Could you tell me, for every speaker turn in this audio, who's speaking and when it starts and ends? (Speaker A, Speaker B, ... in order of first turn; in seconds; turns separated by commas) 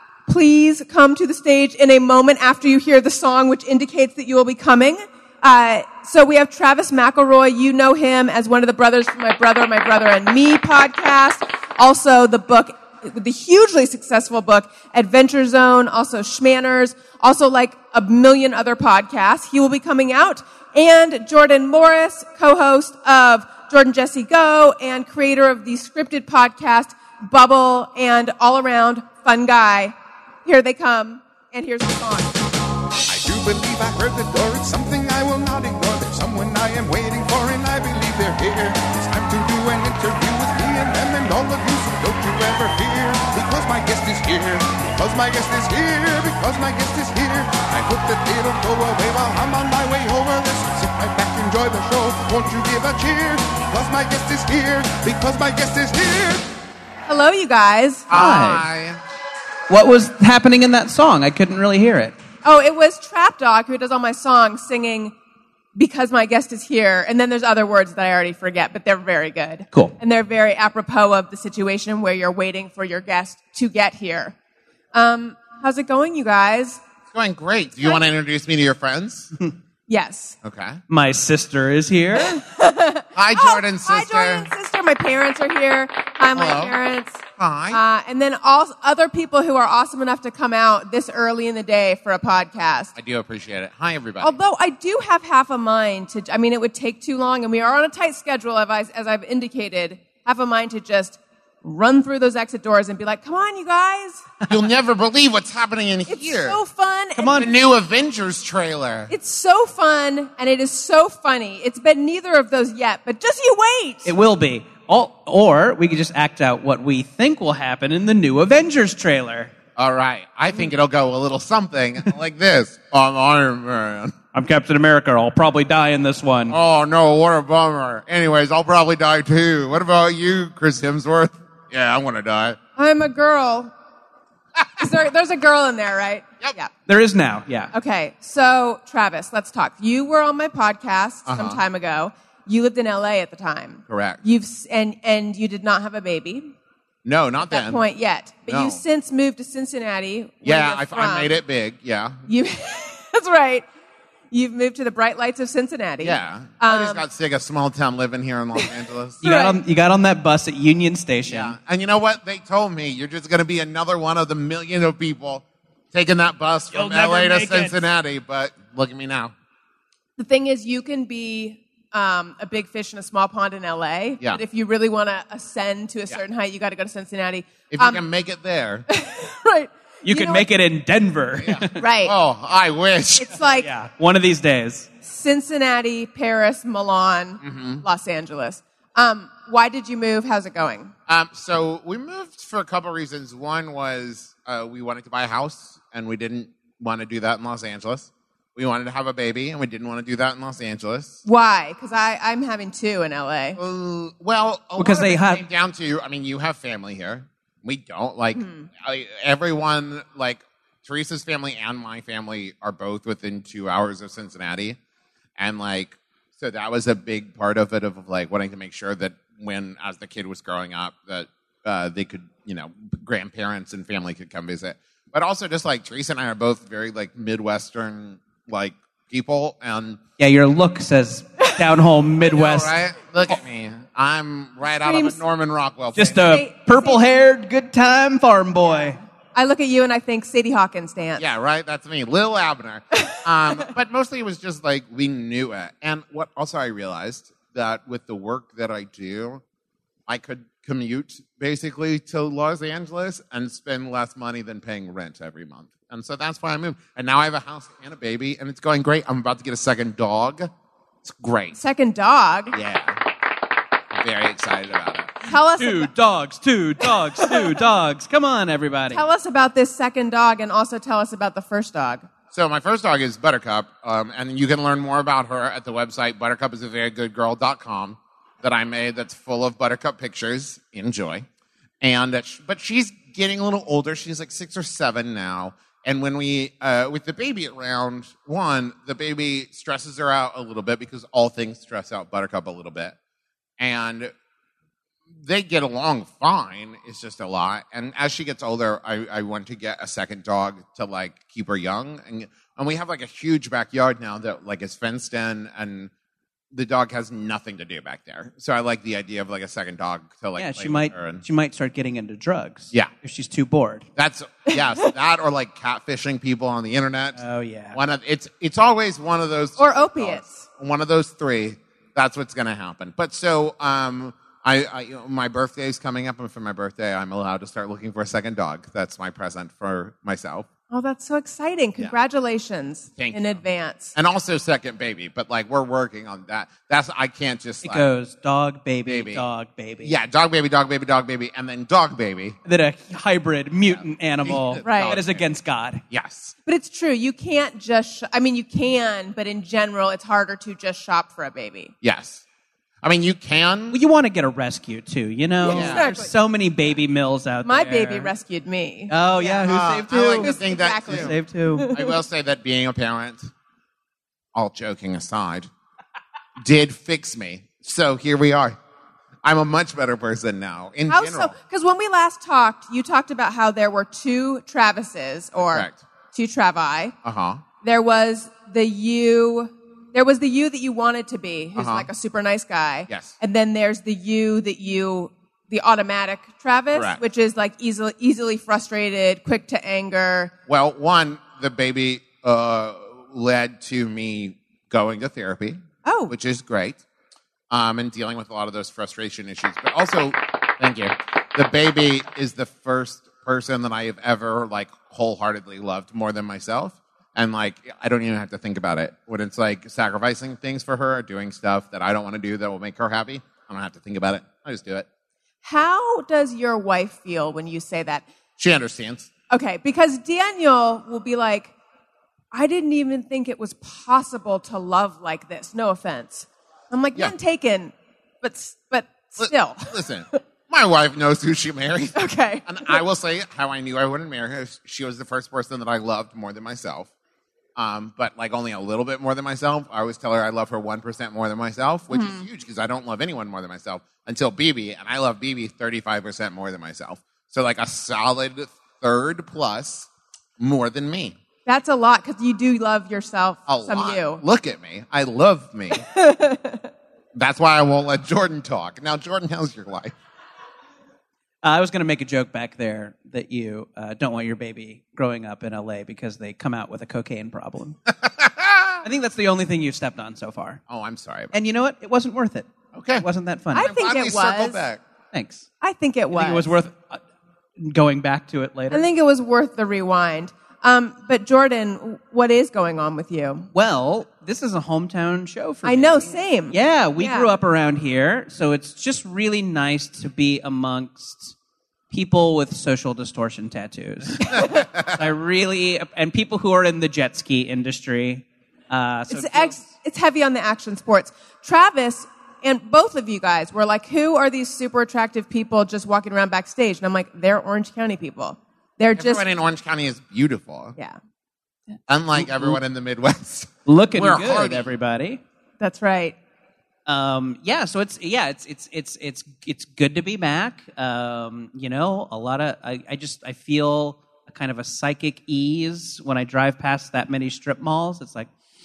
Speaker A: 0.3-32.4, Speaker B: 33.1-56.4, Speaker A: 57.1-58.1, Speaker C: 58.1-59.0, Speaker D: 58.1-58.6, Speaker D: 59.7-62.1, Speaker A: 62.4-65.1, Speaker A: 65.7-74.3, Speaker A: 74.9-76.8, Speaker C: 77.1-79.3, Speaker A: 79.9-80.4, Speaker C: 80.4-80.8, Speaker D: 80.9-82.4, Speaker A: 82.3-92.9, Speaker C: 83.1-84.5, Speaker C: 86.3-86.8, Speaker C: 87.4-87.8, Speaker C: 93.0-94.3, Speaker A: 94.2-104.2, Speaker C: 104.5-106.6, Speaker A: 106.1-107.5, Speaker D: 107.2-107.5, Speaker C: 107.3-109.1, Speaker A: 109.1-114.1, Speaker D: 114.0-119.5, Speaker C: 119.8-124.1, Speaker D: 124.3-126.5, Speaker C: 126.5-132.6, Speaker A: 132.8-133.7, Speaker A: 134.8-136.7, Speaker D: 136.9-137.7, Speaker A: 137.7-146.5, Speaker C: 141.2-141.6, Speaker C: 143.9-144.2, Speaker C: 147.0-147.8, Speaker A: 147.5-151.4, Speaker C: 148.5-148.8, Speaker C: 150.4-152.2, Speaker A: 152.3-153.7, Speaker A: 154.3-157.0, Speaker C: 156.0-159.2, Speaker A: 159.2-159.6, Speaker D: 159.2-161.6, Speaker C: 161.2-169.3, Speaker D: 166.7-167.8, Speaker A: 170.2-178.0, Speaker C: 177.7-178.8, Speaker A: 178.9-180.4, Speaker D: 180.0-181.8, Speaker C: 181.4-183.4, Speaker A: 181.8-182.1, Speaker A: 183.2-183.7, Speaker D: 183.6-184.9, Speaker A: 185.0-190.9, Speaker C: 187.4-187.8, Speaker C: 191.1-201.2, Speaker A: 201.2-203.6, Speaker C: 203.6-214.8, Speaker D: 204.8-205.4, Speaker A: 208.3-208.7, Speaker C: 215.4-230.0, Speaker D: 230.2-232.7, Speaker C: 232.2-236.4, Speaker A: 234.7-235.2, Speaker D: 235.9-239.0, Speaker A: 236.2-237.0, Speaker A: 239.3-241.2, Speaker C: 241.2-249.4, Speaker C: 250.1-260.5, Speaker C: 261.0-261.6, Speaker A: 261.5-262.6, Speaker C: 262.5-263.0, Speaker C: 263.9-265.1, Speaker A: 265.2-265.9, Speaker D: 265.6-269.0, Speaker A: 268.9-272.1, Speaker C: 272.3-281.2, Speaker C: 281.8-292.9, Speaker C: 293.6-294.1, Speaker C: 295.2-305.9, Speaker C: 306.5-311.2, Speaker D: 310.4-313.9, Speaker C: 313.9-317.2, Speaker D: 317.2-317.8, Speaker C: 317.7-330.5, Speaker A: 319.6-320.4, Speaker A: 330.7-333.9, Speaker C: 333.0-333.4, Speaker C: 333.9-337.9, Speaker D: 337.6-339.9, Speaker C: 338.9-339.2, Speaker C: 339.8-342.4, Speaker D: 342.4-345.8, Speaker C: 343.7-345.2, Speaker A: 344.6-345.0, Speaker C: 345.9-346.3, Speaker A: 346.4-351.7, Speaker C: 351.8-352.2, Speaker C: 352.8-353.8, Speaker D: 353.7-358.1, Speaker A: 355.4-356.1, Speaker C: 355.4-355.8, Speaker A: 357.4-359.5, Speaker D: 358.9-361.7, Speaker C: 359.4-361.1, Speaker A: 360.0-361.9, Speaker C: 361.7-363.3, Speaker C: 364.3-365.5, Speaker C: 366.4-368.6, Speaker C: 369.2-371.3, Speaker A: 370.9-376.9, Speaker C: 375.4-375.8, Speaker C: 377.0-377.4, Speaker A: 377.6-390.3, Speaker C: 381.6-381.9, Speaker C: 382.9-383.1, Speaker C: 386.7-387.0, Speaker C: 390.5-396.8, Speaker A: 395.8-396.1, Speaker C: 397.5-414.9, Speaker A: 415.4-418.0, Speaker C: 418.4-419.1, Speaker A: 419.3-421.5, Speaker A: 422.3-430.2, Speaker C: 429.2-436.9, Speaker A: 431.9-432.8, Speaker C: 437.6-451.2, Speaker A: 441.9-442.2, Speaker A: 451.4-454.2, Speaker C: 453.5-455.9, Speaker A: 455.8-456.7, Speaker C: 457.1-459.9, Speaker D: 461.4-467.8, Speaker C: 468.0-468.8, Speaker D: 468.8-470.6, Speaker C: 470.7-471.3, Speaker D: 471.3-473.7, Speaker C: 472.7-474.8, Speaker A: 473.5-474.6, Speaker D: 475.1-475.5, Speaker A: 475.6-476.5, Speaker D: 476.1-477.0, Speaker D: 477.6-478.9, Speaker A: 478.7-483.5, Speaker D: 483.5-491.3, Speaker A: 485.6-487.3, Speaker D: 491.9-499.6, Speaker A: 494.3-494.6, Speaker A: 499.1-509.2, Speaker C: 508.9-510.8, Speaker C: 511.9-514.7, Speaker D: 513.6-515.2, Speaker A: 515.6-516.1, Speaker D: 516.9-528.3